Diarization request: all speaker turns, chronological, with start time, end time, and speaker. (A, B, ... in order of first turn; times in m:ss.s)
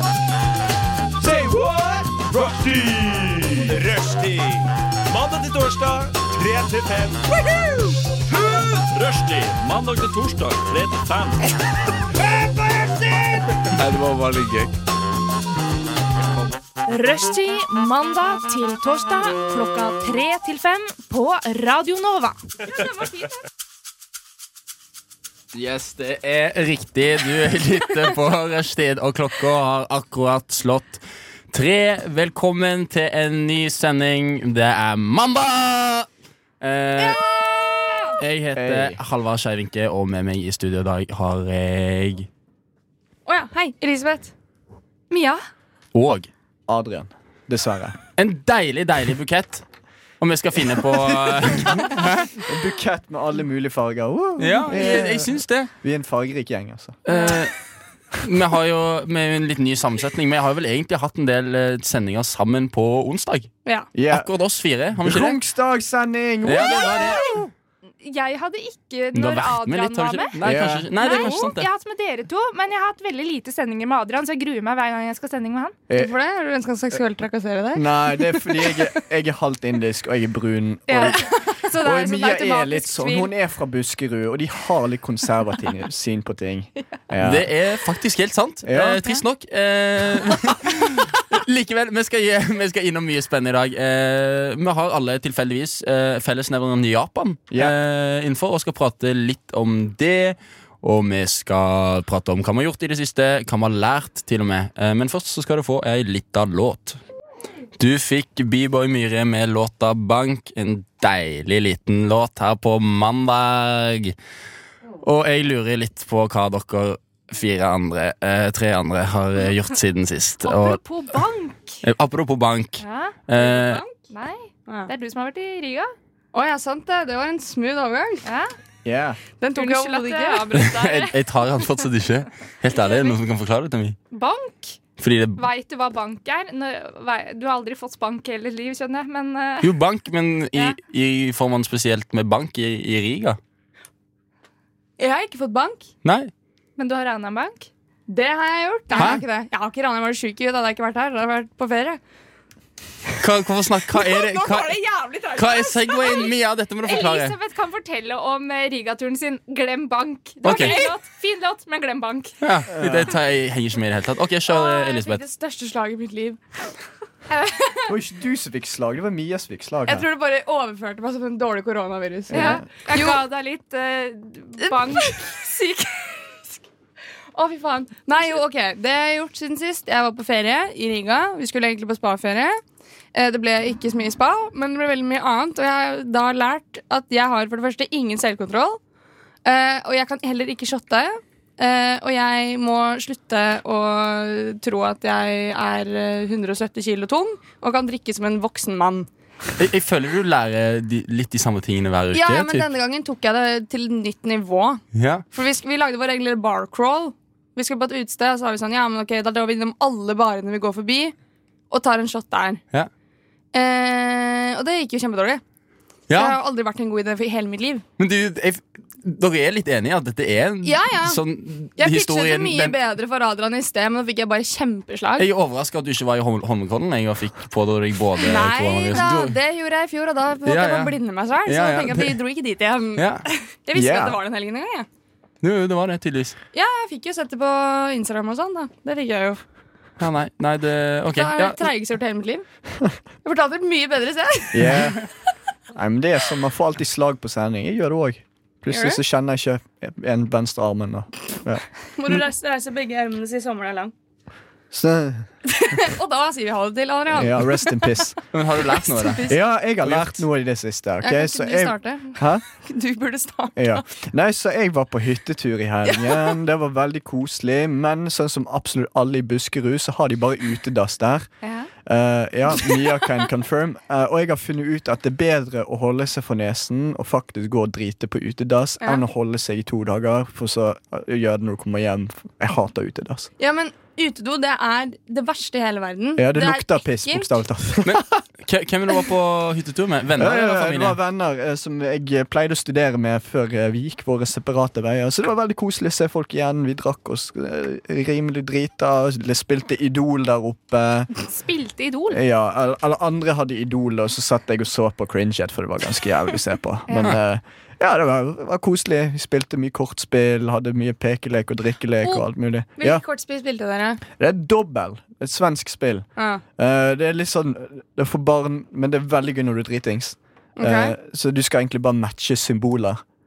0:01.2-0:11.5 A
0:12.1-0:14.8 A
0:16.8-0:23.4 B
0:25.5-0:36.1 C
0:36.6-0:37.4 C
0:38.1-0:42.3 C
0:38.5-0:39.0 D
0:43.2-0:44.3 E
0:45.1-0:45.4 B
0:45.9-0:46.3 C
0:46.7-0:48.0 D
0:48.2-0:49.6 C
0:50.2-0:52.5 C
0:51.1-0:57.0 D
0:54.4-0:55.7 C
0:57.0-0:57.5 C
0:58.2-1:03.5 C
1:03.9-1:04.3 D
1:04.1-1:05.4 C
1:05.0-1:07.2 D
1:06.4-1:07.2 C
1:06.6-1:10.3 B
1:09.1-1:11.7 C
1:10.4-1:10.9 D
1:11.0-1:15.8 B
1:15.9-1:18.9 E
1:17.7-1:27.5 D
1:20.9-1:23.3 B
1:27.2-1:47.0 C
1:28.6-1:29.1 D
1:47.8-1:54.1 C
1:55.0-2:00.8 C
2:00.4-2:01.8 B
2:01.8-2:03.8 C
2:02.8-2:05.9 B
2:03.4-2:03.9 E
2:06.3-2:08.3 E
2:08.2-2:08.5 B
2:08.8-2:09.2 D
2:09.4-2:10.5 E
2:09.5-2:11.6 B
2:10.5-2:14.0 C
2:12.7-2:13.2 B
2:14.1-2:14.8 B
2:15.0-2:15.4 C
2:15.4-2:19.7 B
2:19.6-2:23.4 C
2:25.0-2:25.9 E
2:26.0-2:26.3 C
2:26.8-2:27.7 B
2:28.1-2:32.0 E
2:28.9-2:29.2 B
2:28.9-2:29.2 C
2:33.2-2:34.8 C
2:34.0-2:42.4 B
2:35.3-2:37.3 C
2:40.4-2:40.8 C
2:40.4-2:40.9 E
2:42.4-2:45.2 C
2:42.7-2:43.1 D
2:44.5-2:46.4 E
2:47.3-2:47.9 B
2:47.9-2:50.0 D
2:49.8-2:53.2 E
2:52.3-2:52.7 D
2:52.3-2:56.1 B
2:54.6-2:55.2 E
2:57.3-3:02.6 E
3:03.1-3:08.8 E
3:09.4-3:19.1 E
3:19.6-3:22.7 C
3:22.1-3:31.1 E
3:24.9-3:25.2 C
3:31.7-3:32.6 E
3:33.5-3:35.4 E
3:36.1-3:36.4 C
3:36.1-3:37.8 E
3:38.0-3:42.8 C
3:40.6-3:41.2 E
3:41.8-3:45.3 E
3:45.2-3:49.4 C
3:48.2-3:54.9 E
3:50.4-3:52.2 C
3:53.0-3:53.2 C
3:53.7-3:54.2 D
3:55.4-3:56.4 C
3:56.5-3:59.4 E
4:00.0-4:01.6 C
4:01.1-4:02.4 E
4:03.2-4:04.9 E
4:04.5-4:05.0 D
4:05.7-4:11.6 D
4:08.7-4:09.0 E
4:12.0-4:13.9 E
4:14.7-4:15.3 D
4:15.5-4:18.0 E
4:17.1-4:18.2 D
4:18.3-4:20.2 C
4:18.8-4:19.4 E
4:19.3-4:22.4 D
4:21.0-4:23.8 E
4:23.6-4:31.3 D
4:25.9-4:26.3 E
4:31.4-4:31.7 B
4:31.8-4:43.3 D
4:43.4-4:47.3 E
4:46.2-4:48.0 D
4:47.8-4:51.0 C
4:50.2-5:01.1 D
5:01.2-5:02.2 B
5:02.1-5:13.0 D
5:06.9-5:07.2 B
5:12.0-5:14.0 E
5:14.2-5:16.0 D
5:16.2-5:16.4 E
5:16.6-5:23.0 D
5:20.6-5:20.9 E